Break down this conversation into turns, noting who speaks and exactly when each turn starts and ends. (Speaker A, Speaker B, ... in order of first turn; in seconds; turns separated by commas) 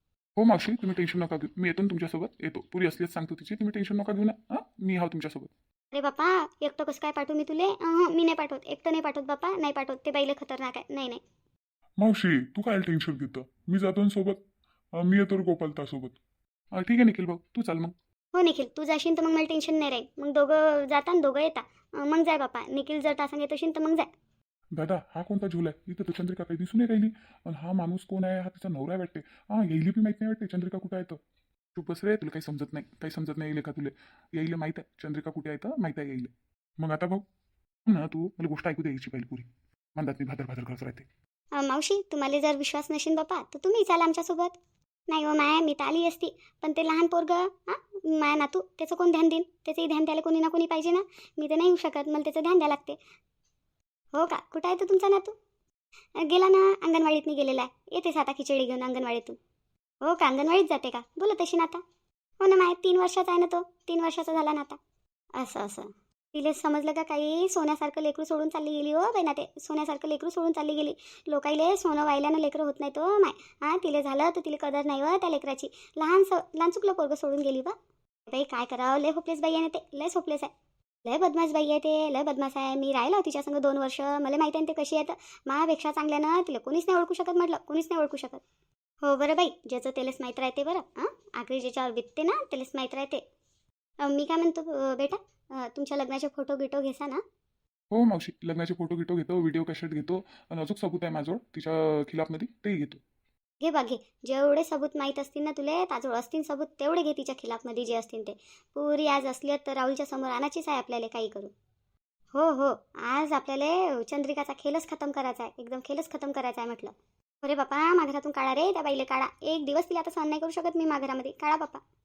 Speaker A: 0.4-5.5, Speaker B: 5.9-11.2, Speaker C: 12.0-14.4, Speaker C: 15.0-16.2, Speaker A: 16.8-17.9, Speaker B: 18.3-24.1, Speaker A: 24.8-31.2, Speaker A: 31.8-37.2, Speaker A: 37.9-41.1, Speaker B: 41.6-44.5, Speaker B: 45.1-53.0, Speaker B: 54.1-55.4, Speaker B: 56.2-59.4, Speaker B: 60.0-61.8, Speaker B: 62.4-64.8, Speaker B: 65.3-77.8, Speaker B: 78.3-80.5, Speaker B: 81.0-88.4, Speaker B: 89.0-93.2, Speaker B: 94.0-97.2, Speaker A: 97.9-103.0, Speaker B: 103.6-111.5, Speaker B: 112.3-121.8